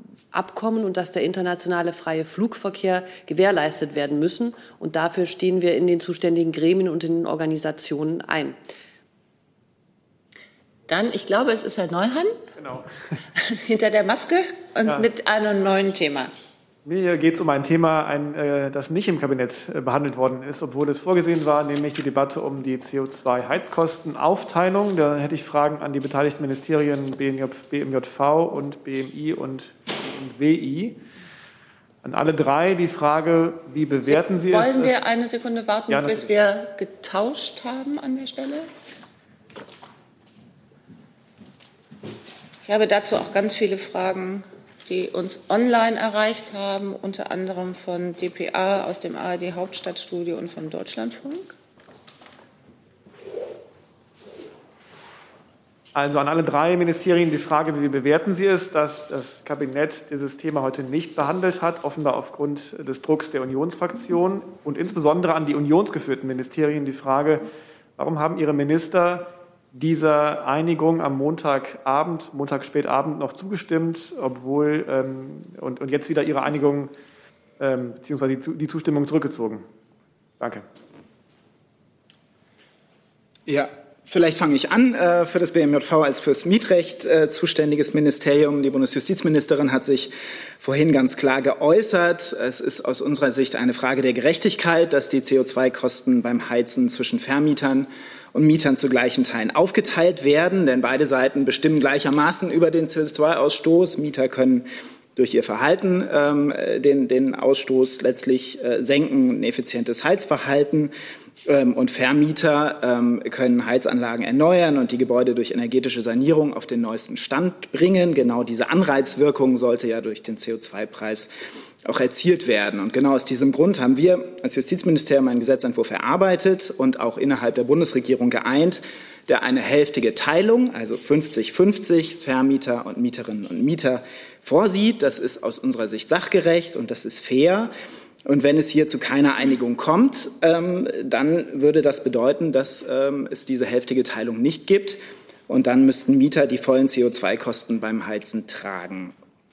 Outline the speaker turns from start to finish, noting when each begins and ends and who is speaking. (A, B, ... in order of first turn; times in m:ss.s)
0:00.3-0:08.6 A
0:10.9-0:12.4 B
0:12.6-0:12.9 C
0:13.5-0:16.3 B
0:16.8-0:31.0 C
0:32.0-0:35.0 C
0:34.0-0:38.7 B
0:35.9-0:36.2 C
0:42.6-0:51.5 B
0:55.9-1:07.4 C
1:08.0-1:16.9 C
1:17.6-1:19.6 C
1:20.4-1:20.6 C
1:23.4-1:50.9 D
1:51.4-2:01.3 D
2:01.8-2:17.7 D
2:18.2-2:29.1 D